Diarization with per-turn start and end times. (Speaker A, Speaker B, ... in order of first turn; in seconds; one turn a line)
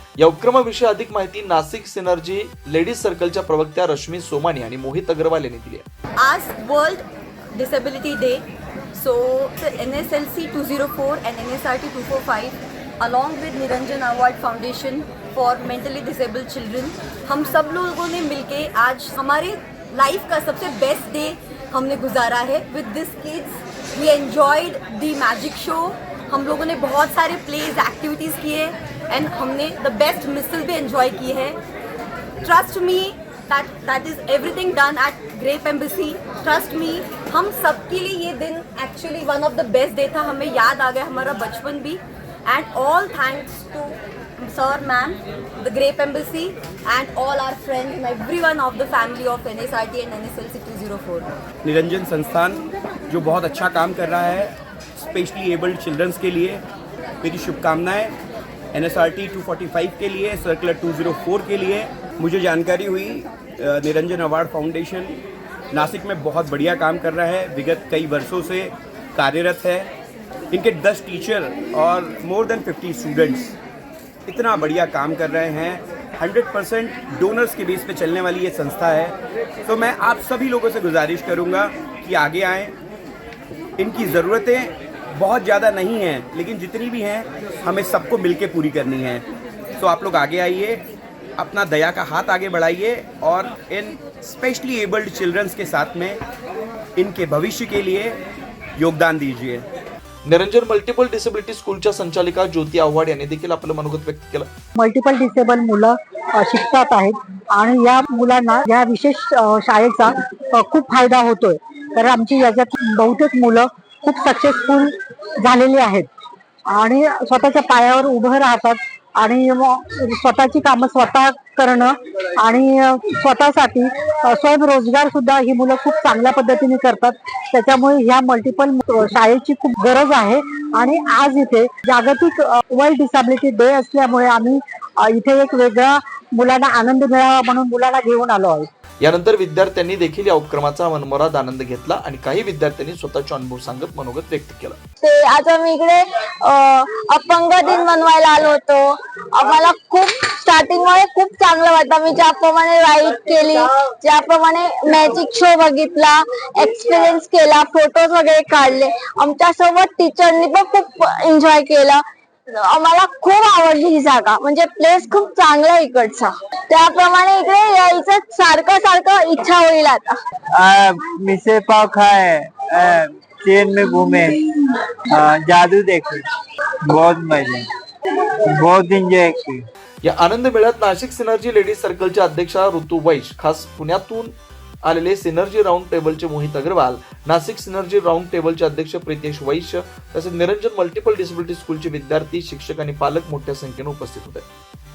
Speaker A: 0.2-5.9
Speaker B: 6.2-31.6
Speaker B: 32.4-51.4
Speaker C: 51.6-56.6
Speaker C: 57.2-58.2
Speaker C: 58.7-65.2
Speaker C: 65.7-69.9
Speaker C: 70.5-73.5
Speaker C: 74.3-82.8
Speaker C: 83.8-89.3
Speaker C: 89.8-90.9
Speaker C: 91.4-96.2
Speaker C: 97.0-98.2
Speaker C: 98.8-99.7
Speaker A: 100.3-104.5
Speaker D: 104.8-116.1
Speaker D: 116.7-138.7
Speaker A: 139.0-144.8
Speaker E: 145.0-170.2
Speaker F: 170.5-176.3
Speaker F: 176.8-177.7
Speaker F: 178.4-179.7
Speaker A: 180.0-194.5